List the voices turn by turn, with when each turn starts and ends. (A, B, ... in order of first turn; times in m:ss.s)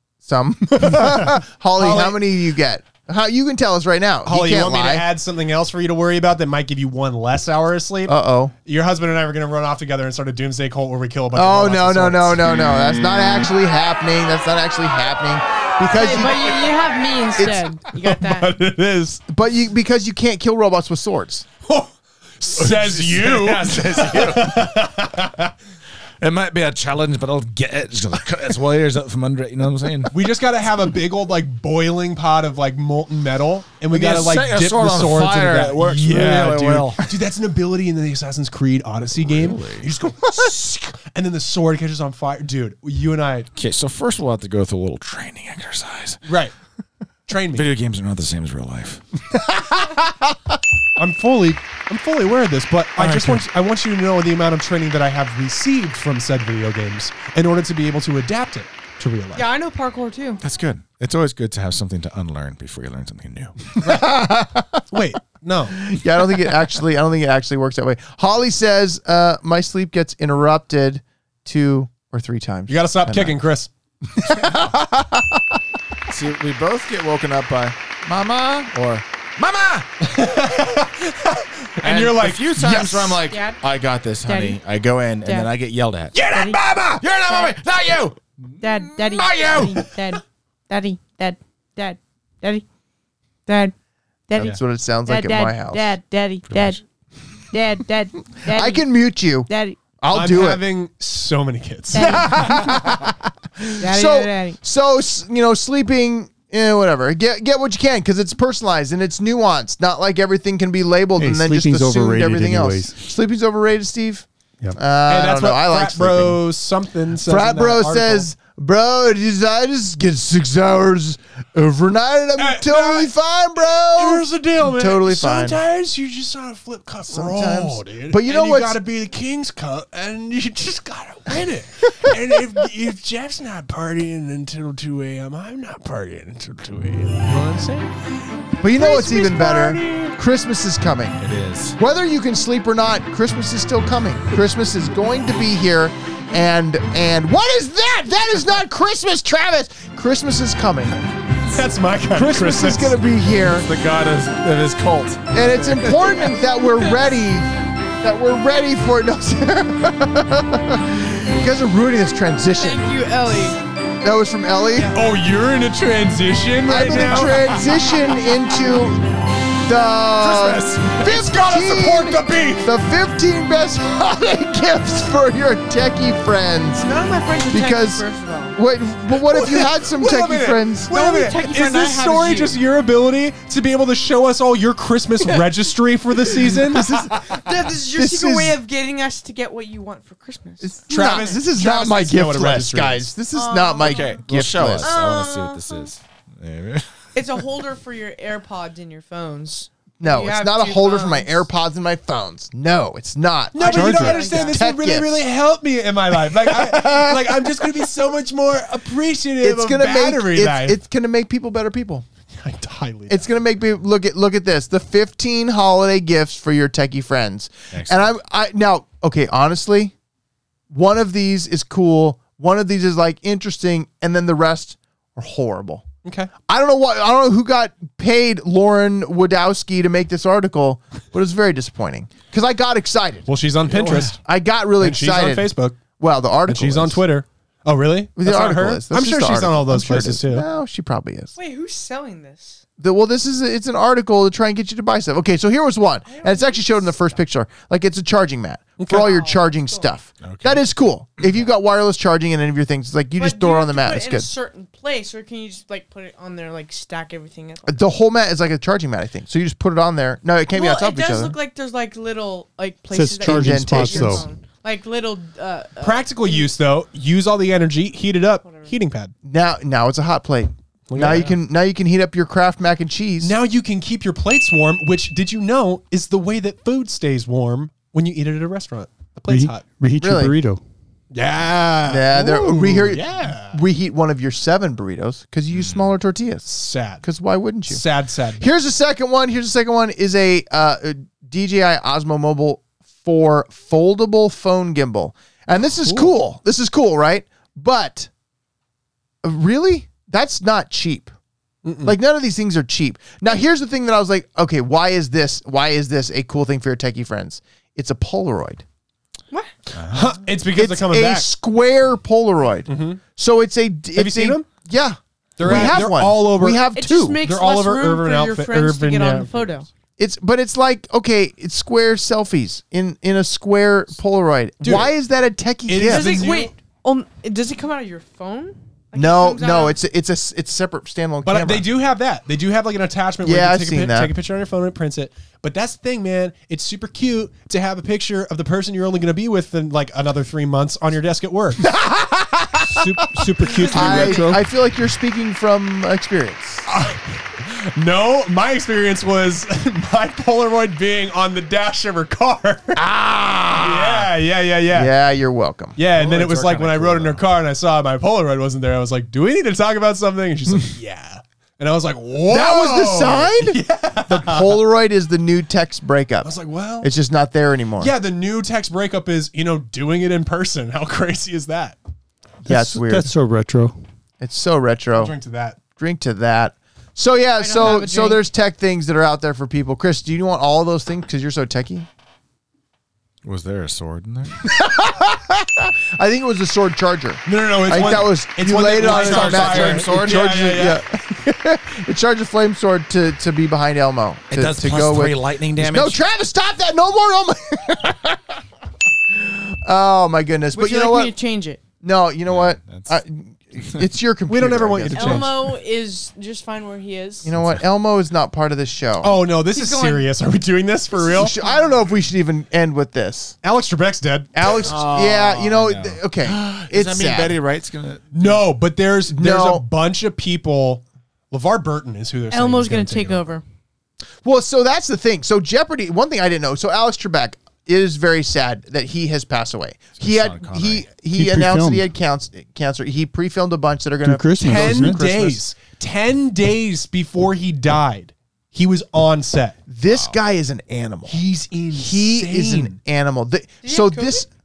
0:00.3-0:05.1 A
0:00.8-0:01.2 B
0:01.8-0:02.2 B
0:04.3-0:08.1 B
0:08.1-0:08.5 A
0:08.6-0:12.5 B
0:11.3-0:16.5 A
0:15.9-0:18.6 C
0:17.4-0:17.6 A
0:17.9-0:19.2 B
0:19.2-0:21.5 A
0:21.6-0:25.5 B
0:22.6-0:24.9 D
0:26.2-0:30.1 D
0:30.1-0:43.5 B
0:33.9-0:37.1 D
0:39.2-0:39.9 D
0:43.6-0:46.2 D
0:46.2-0:46.5 B
0:47.3-0:47.7 B
0:47.5-0:49.0 D
0:51.0-0:59.5 B
0:53.0-0:53.4 D
0:59.4-1:00.4 C
1:00.4-1:03.7 D
1:03.8-1:04.8 A
1:03.8-1:04.1 B
1:04.9-1:05.8 B
1:05.8-1:13.4 A
1:12.7-1:13.7 B
1:14.2-1:15.4 A
1:16.1-1:19.9 D
1:20.0-1:23.2 B
1:21.8-1:29.9 D
1:23.2-1:23.6 C
1:24.3-1:24.6 C
1:25.2-1:25.5 C
1:26.2-1:26.6 C
1:27.2-1:27.6 C
1:28.6-1:32.6 C
1:33.5-1:33.7 C
1:34.3-1:36.8 C
1:34.4-1:35.9 A
1:36.5-1:36.8 D
1:37.5-1:38.9 C
1:38.4-1:40.6 A
1:39.5-1:39.8 C
1:40.1-1:42.3 B
1:41.9-1:42.9 C
1:42.0-1:56.4 A
1:43.8-1:44.6 C
1:51.2-1:53.0 E
1:55.1-1:58.3 B
1:57.2-2:05.6 A
2:02.4-2:18.0 B
2:07.1-2:08.8 A
2:18.6-2:21.2 A
2:18.8-2:19.8 C
2:18.8-2:20.1 B
2:21.2-2:21.8 D
2:21.8-2:31.0 A
2:31.5-2:33.0 B
2:32.1-2:33.7 A
2:33.5-2:36.2 D
2:35.3-2:37.5 A
2:36.3-2:37.2 C
2:38.0-2:42.9 A
2:42.5-2:43.6 C
2:44.0-2:44.9 A
2:44.8-2:47.6 B
2:46.7-2:49.0 A
2:49.6-2:56.9 A
2:50.2-2:51.3 D
2:51.0-2:52.7 B
2:56.8-2:58.6 C
2:57.5-2:58.0 A
2:58.6-3:00.9 A
2:59.2-3:06.9 B
3:00.9-3:02.6 C
3:06.5-3:08.6 A
3:07.1-3:11.4 C
3:10.6-3:14.9 A
3:10.9-3:13.1 B
3:13.3-3:14.3 C
3:13.8-3:17.0 D
3:14.8-3:15.9 C
3:17.2-3:21.5 C
3:20.0-3:25.2 A
3:23.5-3:30.8 B
3:23.6-3:24.6 C
3:26.4-3:27.7 A
3:29.4-3:32.1 A
3:32.4-3:33.3 B
3:33.1-3:39.9 A
3:37.7-3:38.1 D
3:40.7-3:45.8 A
3:46.0-3:46.3 B
3:46.5-3:57.0 A
3:53.3-3:54.2 B
3:54.8-3:55.8 B
3:56.5-4:00.5 B
3:58.2-4:01.3 A
4:01.4-4:02.6 C
4:02.8-4:14.3 A
4:06.0-4:07.2 C
4:08.8-4:09.2 B
4:09.0-4:09.9 C
4:10.2-4:10.6 D
4:13.2-4:17.8 C
4:17.7-4:21.4 A
4:20.5-4:26.5 C
4:22.9-4:24.2 E
4:23.2-4:24.3 A
4:25.8-4:29.1 B
4:28.4-4:28.7 C
4:29.2-4:33.3 A
4:30.9-4:31.4 B
4:33.2-4:39.6 B
4:39.3-4:40.6 E
4:40.0-4:40.4 A
4:41.1-4:43.6 B
4:41.9-4:46.5 A
4:45.5-4:45.9 D
4:46.5-4:47.1 B
4:47.0-4:47.8 A
4:47.7-4:48.5 B
4:48.4-4:58.1 A
4:55.8-4:56.1 B
4:59.2-5:01.1 A
5:01.6-5:02.0 B
5:01.8-5:08.6 A
5:09.7-5:11.3 B
5:09.8-5:10.1 D
5:10.5-5:17.2 A
5:12.7-5:13.0 B
5:14.0-5:14.5 B
5:15.4-5:16.7 B
5:16.7-5:19.7 C
5:17.2-5:19.3 B
5:20.0-5:26.3 A
5:24.6-5:24.9 B
5:25.7-5:26.5 B
5:25.8-5:29.8 C
5:28.9-5:31.7 A
5:31.2-5:41.7 B
5:33.2-5:34.1 A
5:41.6-5:46.7 A
5:42.7-5:44.5 E
5:43.5-5:44.2 C
5:46.7-5:52.8 B
5:52.8-5:54.1 A
5:53.6-5:54.9 B
5:54.7-5:55.8 A
5:55.8-6:04.6 B
5:55.9-5:57.2 D
6:02.3-6:07.9 A
6:06.2-6:06.9 B
6:07.8-6:11.8 B
6:12.4-6:13.1 A
6:12.5-6:13.8 E
6:14.2-6:15.2 A
6:15.0-6:15.6 B
6:15.8-6:21.9 A
6:17.4-6:18.3 C
6:23.2-6:24.4 D
6:24.4-6:38.4 A
6:27.2-6:30.8 B
6:28.8-6:30.2 D
6:34.3-6:36.0 D
6:39.1-6:41.2 A
6:40.5-6:41.6 C
6:41.8-6:45.3 A
6:42.3-6:43.0 D
6:43.6-6:43.9 D
6:44.3-6:45.3 B
6:44.9-6:47.3 C
6:47.2-6:49.2 A
6:47.4-6:47.6 D
6:49.0-6:51.4 B
6:49.5-6:50.1 C
6:51.0-6:51.8 C
6:51.1-6:53.4 A
6:53.4-6:54.4 B
6:54.4-6:57.4 A
6:54.6-6:58.4 D
6:58.1-7:03.3 B
6:59.1-6:59.6 A
7:02.3-7:03.4 C
7:04.2-7:15.4 A
7:10.0-7:10.9 D
7:11.1-7:11.9 E
7:14.0-7:15.0 E
7:14.4-7:19.6 B
7:19.7-7:21.2 A
7:19.9-7:20.2 D
7:21.1-7:22.8 B
7:21.7-7:24.3 A
7:23.6-7:24.3 C